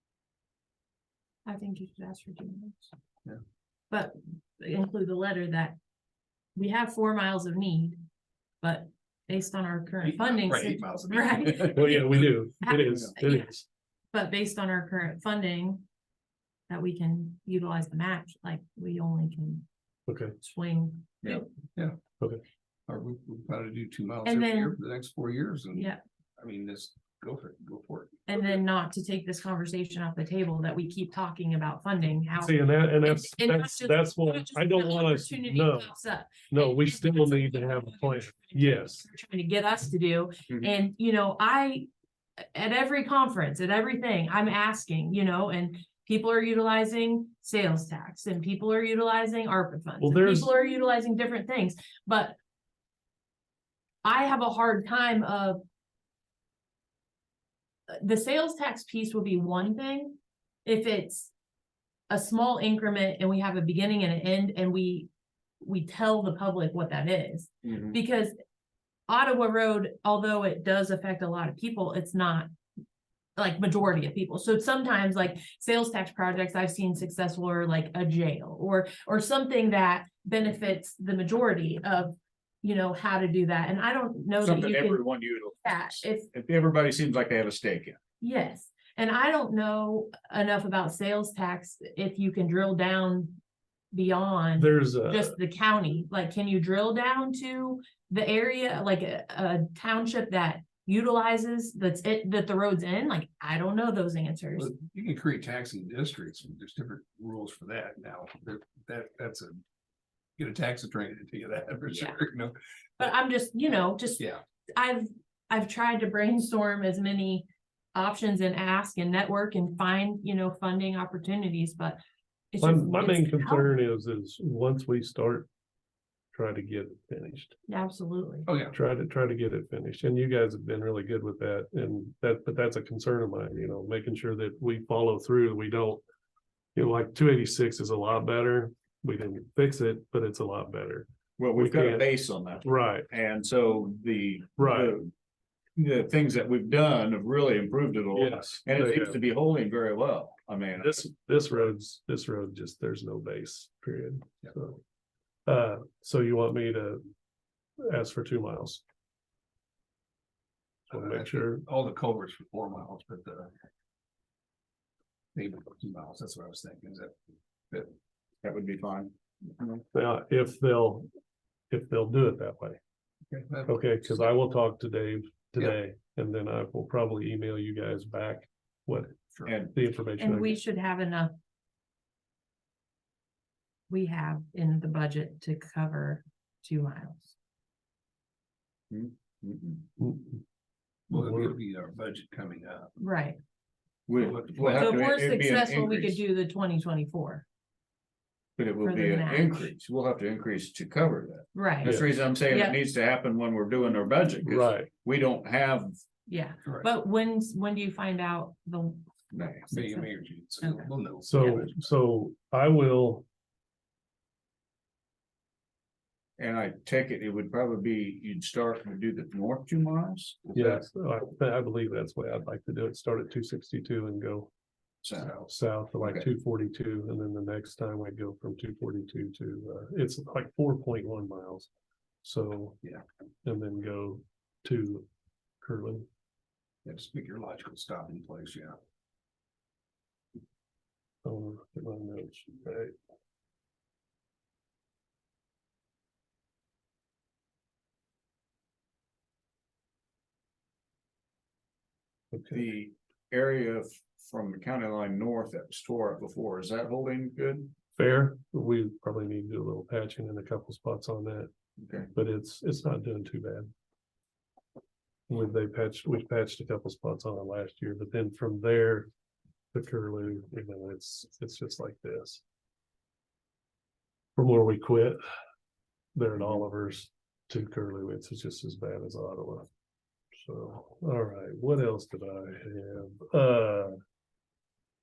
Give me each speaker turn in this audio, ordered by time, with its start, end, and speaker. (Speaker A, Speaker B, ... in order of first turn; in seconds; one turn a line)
Speaker A: 1.5-2.9
Speaker A: 3.9-5.8
Speaker A: 6.5-8.0
Speaker A: 8.6-12.1
Speaker B: 10.0-12.3
Speaker C: 11.7-13.6
Speaker A: 12.6-13.5
Speaker D: 12.8-13.1
Speaker A: 14.1-15.8
Speaker A: 16.7-19.7
Speaker C: 20.1-20.3
Speaker A: 20.4-21.5
Speaker B: 22.9-28.5
Speaker A: 24.2-24.8
Speaker A: 25.7-26.0
Speaker A: 28.3-41.9
Speaker C: 32.4-35.9
Speaker C: 36.5-39.0
Speaker A: 42.5-52.4
Speaker C: 50.0-50.5
Speaker A: 54.0-55.6
Speaker A: 57.9-61.3
Speaker A: 62.1-65.1
Speaker A: 65.6-68.3
Speaker D: 67.6-68.0
Speaker A: 69.1-72.5
Speaker A: 73.4-86.3
Speaker D: 84.4-88.0
Speaker A: 88.2-93.4
Speaker A: 93.9-104.7
Speaker C: 94.6-95.4
Speaker B: 104.6-109.6
Speaker B: 110.4-112.6
Speaker A: 111.9-112.2
Speaker A: 113.0-114.2
Speaker A: 114.8-122.0
Speaker A: 122.5-123.8
Speaker C: 122.6-125.5
Speaker C: 126.3-127.5
Speaker A: 127.7-128.5
Speaker B: 128.5-128.8
Speaker C: 128.7-136.0
Speaker C: 136.7-142.1
Speaker D: 141.4-145.1
Speaker C: 142.6-143.1
Speaker C: 144.6-145.0
Speaker D: 145.8-151.0
Speaker C: 148.1-149.2
Speaker C: 150.8-154.8
Speaker C: 155.4-157.0
Speaker C: 157.8-158.8
Speaker B: 160.9-163.5
Speaker C: 160.9-161.6
Speaker B: 165.3-167.1
Speaker D: 168.4-169.8
Speaker C: 169.9-171.1
Speaker C: 171.7-172.8
Speaker B: 173.3-173.9
Speaker C: 173.7-180.6
Speaker D: 179.4-179.7
Speaker A: 180.2-181.3
Speaker A: 183.9-187.3
Speaker D: 188.9-189.9
Speaker C: 190.0-190.4
Speaker B: 191.1-192.9
Speaker C: 191.1-191.5
Speaker A: 193.0-193.4
Speaker D: 194.1-196.2
Speaker B: 194.2-195.0
Speaker A: 194.8-197.4
Speaker D: 198.6-205.9
Speaker A: 198.8-199.7
Speaker A: 201.5-202.8
Speaker C: 204.4-204.9
Speaker A: 206.3-209.1
Speaker D: 209.3-209.7
Speaker A: 209.7-210.9
Speaker B: 209.7-211.8
Speaker C: 211.2-213.2
Speaker D: 216.4-220.8
Speaker C: 220.5-224.5
Speaker D: 225.0-225.3
Speaker B: 225.2-225.5
Speaker C: 225.4-231.7
Speaker C: 232.2-232.8
Speaker C: 233.4-235.1
Speaker C: 235.6-236.0
Speaker B: 236.8-238.8
Speaker C: 241.2-242.9
Speaker D: 252.5-257.7
Speaker C: 258.0-261.5
Speaker D: 261.8-262.1
Speaker C: 262.1-263.7
Speaker C: 265.3-269.1
Speaker C: 269.7-272.4
Speaker C: 274.4-275.2
Speaker C: 276.1-279.7
Speaker D: 276.4-276.6
Speaker C: 280.4-284.0